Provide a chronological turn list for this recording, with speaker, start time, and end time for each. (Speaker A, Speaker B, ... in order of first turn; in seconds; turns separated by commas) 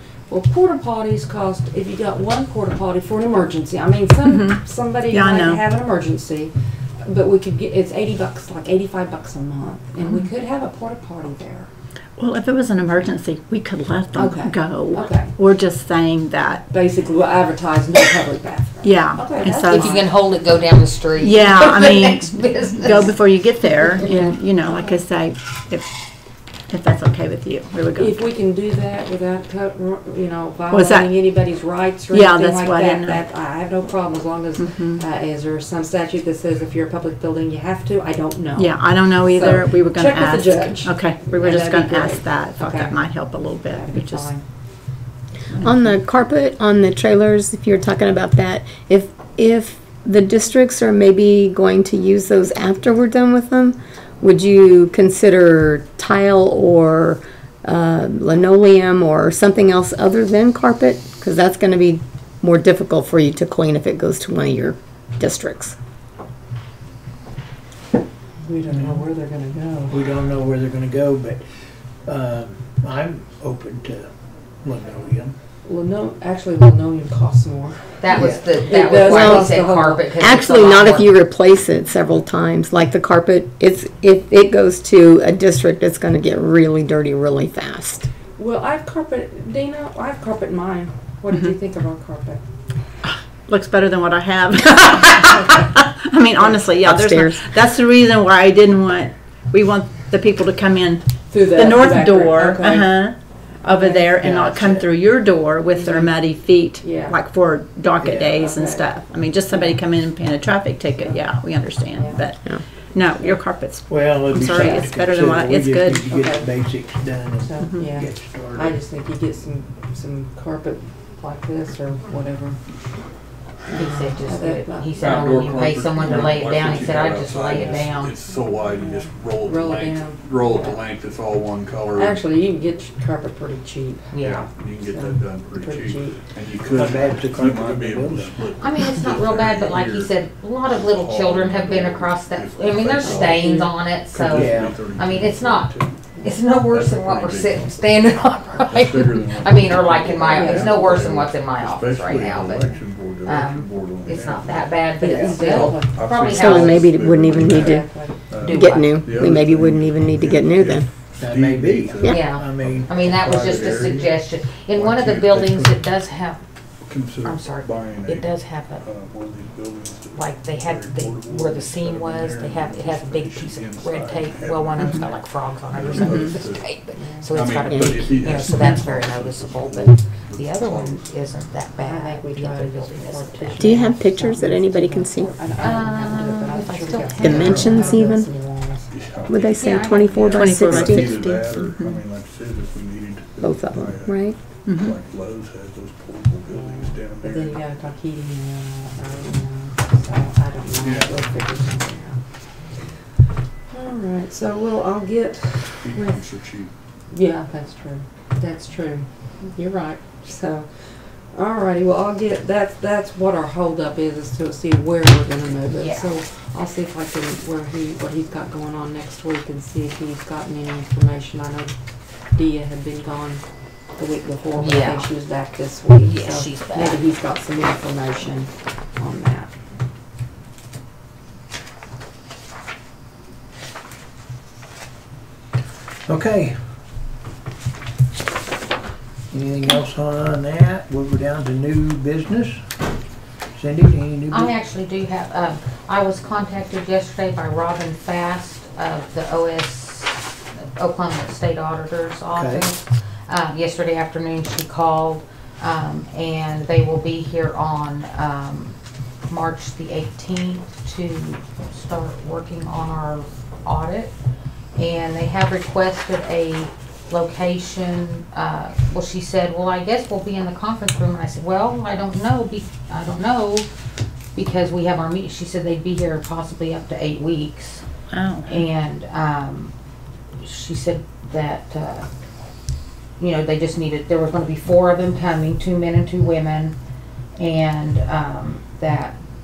Speaker A: 0.3-11.7, Speaker B: 4.2-5.6, Speaker B: 12.2-16.7, Speaker A: 14.1-15.3, Speaker A: 16.7-20.1, Speaker B: 18.8-19.9, Speaker C: 19.7-23.4, Speaker B: 21.2-25.9, Speaker B: 26.7-28.2, Speaker A: 28.0-43.0, Speaker B: 30.7-31.2, Speaker B: 32.1-33.2, Speaker B: 34.6-35.0, Speaker B: 38.6-44.3, Speaker A: 43.7-44.4, Speaker D: 45.6-65.8, Speaker A: 68.4-70.0, Speaker E: 68.7-69.0, Speaker E: 69.9-71.4, Speaker E: 72.0-74.1, Speaker E: 74.6-75.3, Speaker A: 75.7-80.1, Speaker C: 78.0-81.1, Speaker D: 79.0-79.5, Speaker D: 80.2-88.1, Speaker A: 88.4-92.4, Speaker B: 93.1-116.1, Speaker D: 96.8-97.5, Speaker A: 101.3-103.1, Speaker A: 103.6-105.0, Speaker A: 105.8-106.2, Speaker A: 106.8-107.2, Speaker E: 108.0-108.4, Speaker A: 108.3-109.0, Speaker A: 109.5-109.8, Speaker A: 111.9-112.2, Speaker E: 113.9-118.8, Speaker A: 114.5-114.9, Speaker A: 116.1-116.5, Speaker A: 117.4-122.6, Speaker A: 123.7-125.2, Speaker C: 123.7-128.2, Speaker F: 125.0-132.2, Speaker A: 126.1-126.4, Speaker A: 128.7-130.8, Speaker A: 131.9-136.2, Speaker C: 134.1-134.4, Speaker F: 134.2-146.0, Speaker E: 136.6-138.3, Speaker C: 138.6-145.7, Speaker A: 143.0-143.7, Speaker E: 144.3-144.9, Speaker C: 146.2-152.7, Speaker F: 146.7-147.8, Speaker F: 148.7-154.8, Speaker A: 150.3-151.1, Speaker C: 153.2-156.8, Speaker A: 155.0-156.6, Speaker F: 155.4-164.2, Speaker D: 156.3-157.9, Speaker A: 157.5-158.2, Speaker C: 158.4-159.0, Speaker D: 158.5-160.9, Speaker E: 161.2-163.9, Speaker C: 162.1-166.4, Speaker F: 164.7-165.9, Speaker F: 166.9-175.1, Speaker C: 167.2-168.9, Speaker C: 170.1-183.9, Speaker F: 175.7-176.7, Speaker A: 177.0-177.4, Speaker F: 177.3-181.1, Speaker A: 181.8-188.9, Speaker D: 183.6-185.3, Speaker C: 185.6-188.2, Speaker D: 187.2-188.3, Speaker F: 187.3-187.8, Speaker F: 188.9-197.6, Speaker D: 189.3-191.7, Speaker C: 189.6-190.3, Speaker B: 190.3-192.0, Speaker D: 193.4-194.4, Speaker B: 194.7-195.0, Speaker A: 196.5-202.2, Speaker F: 200.8-201.2, Speaker A: 203.7-206.2, Speaker F: 205.8-206.7, Speaker A: 207.1-221.7, Speaker C: 215.8-216.0, Speaker A: 222.3-223.4, Speaker A: 224.0-229.5, Speaker C: 224.6-225.1, Speaker C: 226.0-227.0, Speaker E: 236.1-236.6, Speaker E: 239.3-242.6, Speaker E: 243.5-244.5, Speaker C: 244.3-258.8, Speaker E: 252.3-252.7, Speaker C: 259.3-264.1, Speaker C: 264.8-273.7, Speaker C: 274.4-277.9, Speaker B: 278.1-278.6, Speaker C: 278.5-279.7, Speaker C: 280.4-282.1, Speaker C: 283.2-286.8, Speaker C: 287.4-289.2